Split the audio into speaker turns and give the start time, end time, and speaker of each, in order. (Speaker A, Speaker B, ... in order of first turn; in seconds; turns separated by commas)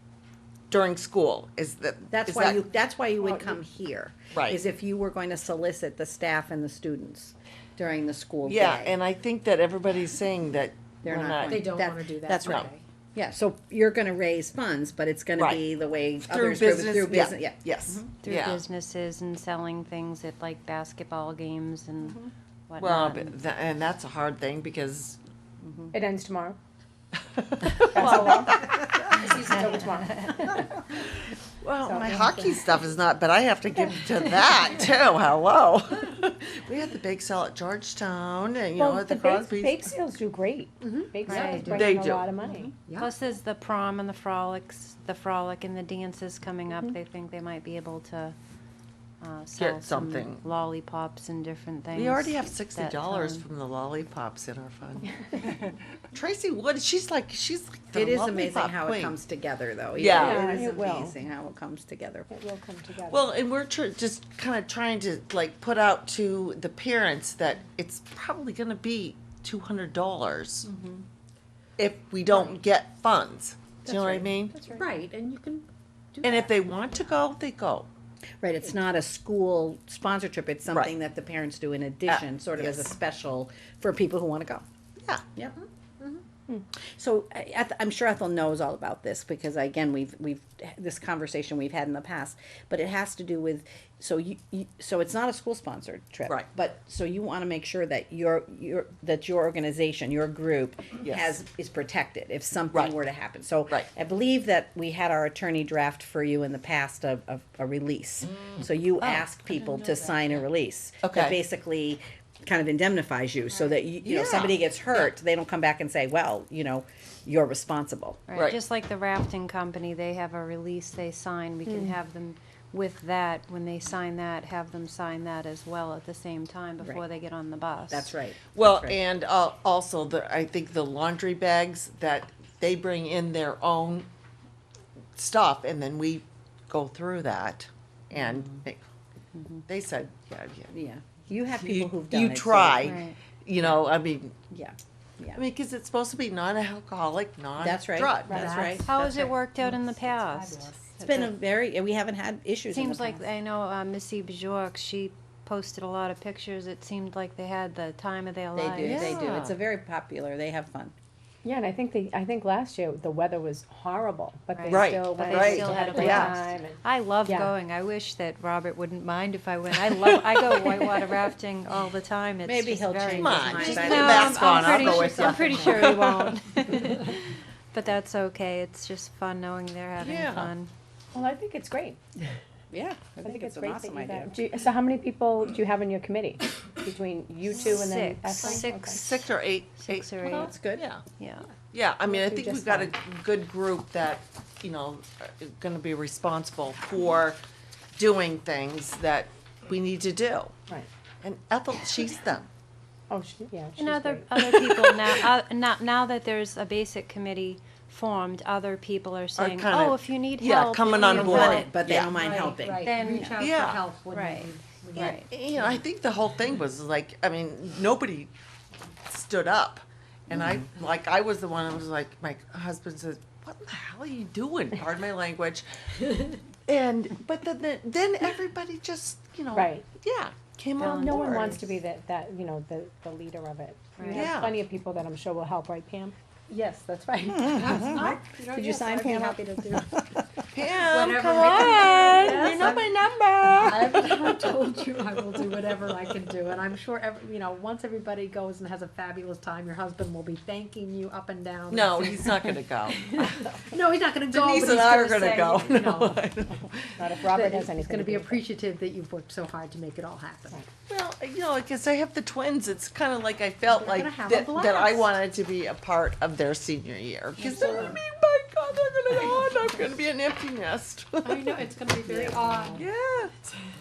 Speaker A: 0.7-2.6, Speaker B: 2.1-9.0, Speaker C: 3.2-3.6, Speaker A: 4.3-4.6, Speaker A: 8.4-11.6, Speaker B: 11.0-18.1, Speaker D: 11.4-12.8, Speaker A: 12.4-12.7, Speaker A: 15.4-15.6, Speaker A: 16.2-18.6, Speaker E: 18.2-23.4, Speaker B: 22.0-22.3, Speaker A: 22.8-25.2, Speaker B: 25.6-25.9, Speaker C: 25.9-26.6, Speaker A: 27.4-29.4, Speaker C: 27.8-28.6, Speaker B: 28.0-29.1, Speaker C: 29.1-30.9, Speaker E: 29.6-29.8, Speaker A: 31.0-39.9, Speaker C: 31.8-32.6, Speaker C: 38.8-42.8, Speaker D: 40.8-43.1, Speaker E: 41.2-41.9, Speaker A: 41.7-42.3, Speaker E: 43.0-48.4, Speaker E: 49.2-53.4, Speaker A: 49.6-50.4, Speaker A: 51.9-55.1, Speaker C: 55.3-55.6, Speaker A: 56.1-59.1, Speaker B: 57.9-62.3, Speaker A: 60.0-60.4, Speaker C: 60.1-61.1, Speaker C: 62.3-63.3, Speaker A: 63.1-70.7, Speaker D: 70.6-71.0, Speaker A: 71.8-74.6, Speaker C: 73.9-74.8, Speaker D: 74.6-76.8, Speaker A: 76.2-77.9, Speaker B: 78.4-84.6, Speaker A: 82.1-82.9, Speaker B: 86.9-118.2, Speaker D: 109.5-110.0, Speaker A: 111.0-111.4, Speaker A: 114.0-115.1, Speaker E: 118.3-128.1, Speaker B: 127.9-129.0, Speaker A: 128.5-134.1, Speaker A: 135.2-138.8, Speaker B: 138.2-138.5, Speaker E: 139.3-139.6, Speaker A: 139.7-140.7, Speaker B: 140.7-143.1, Speaker A: 141.6-144.3, Speaker E: 142.8-143.2, Speaker B: 144.5-145.4, Speaker A: 145.3-148.3, Speaker B: 147.6-148.9, Speaker D: 148.2-151.0, Speaker E: 148.9-151.3, Speaker B: 151.0-153.2, Speaker E: 152.7-159.2, Speaker B: 158.5-160.9, Speaker A: 158.8-159.6, Speaker C: 161.4-167.5, Speaker E: 164.5-180.7, Speaker A: 164.7-166.3, Speaker A: 169.8-171.1, Speaker B: 172.4-174.6, Speaker A: 173.2-176.3, Speaker D: 174.3-175.9, Speaker A: 180.0-180.5, Speaker C: 181.1-182.0, Speaker B: 182.7-184.4, Speaker C: 183.2-189.0, Speaker E: 187.5-189.2, Speaker A: 187.5-187.8, Speaker A: 188.4-191.0, Speaker E: 189.8-190.6, Speaker B: 190.2-190.8, Speaker E: 191.2-191.5, Speaker A: 191.7-197.4, Speaker C: 192.1-192.9, Speaker A: 197.9-200.5, Speaker A: 201.2-202.5, Speaker C: 203.1-204.3, Speaker E: 203.8-211.7, Speaker A: 204.3-205.1, Speaker A: 209.4-212.1, Speaker D: 211.1-215.9, Speaker B: 211.1-212.9, Speaker E: 212.8-213.4, Speaker A: 213.4-213.8, Speaker E: 214.1-215.3, Speaker A: 214.9-218.3, Speaker A: 219.1-225.7, Speaker A: 226.7-231.6, Speaker C: 229.5-229.8, Speaker E: 230.8-231.4, Speaker C: 231.0-237.8, Speaker B: 231.3-231.6, Speaker E: 234.0-234.3, Speaker A: 234.1-234.6, Speaker D: 236.5-236.8, Speaker B: 237.3-240.2, Speaker D: 237.5-239.9, Speaker A: 240.5-244.3, Speaker D: 240.8-256.3, Speaker A: 251.7-253.6, Speaker A: 254.3-257.0, Speaker C: 257.0-258.4, Speaker D: 257.2-260.6, Speaker A: 260.9-271.5, Speaker D: 263.6-265.2, Speaker E: 267.4-267.9, Speaker D: 267.5-268.0, Speaker D: 271.2-272.9, Speaker B: 272.1-272.5, Speaker A: 272.7-273.3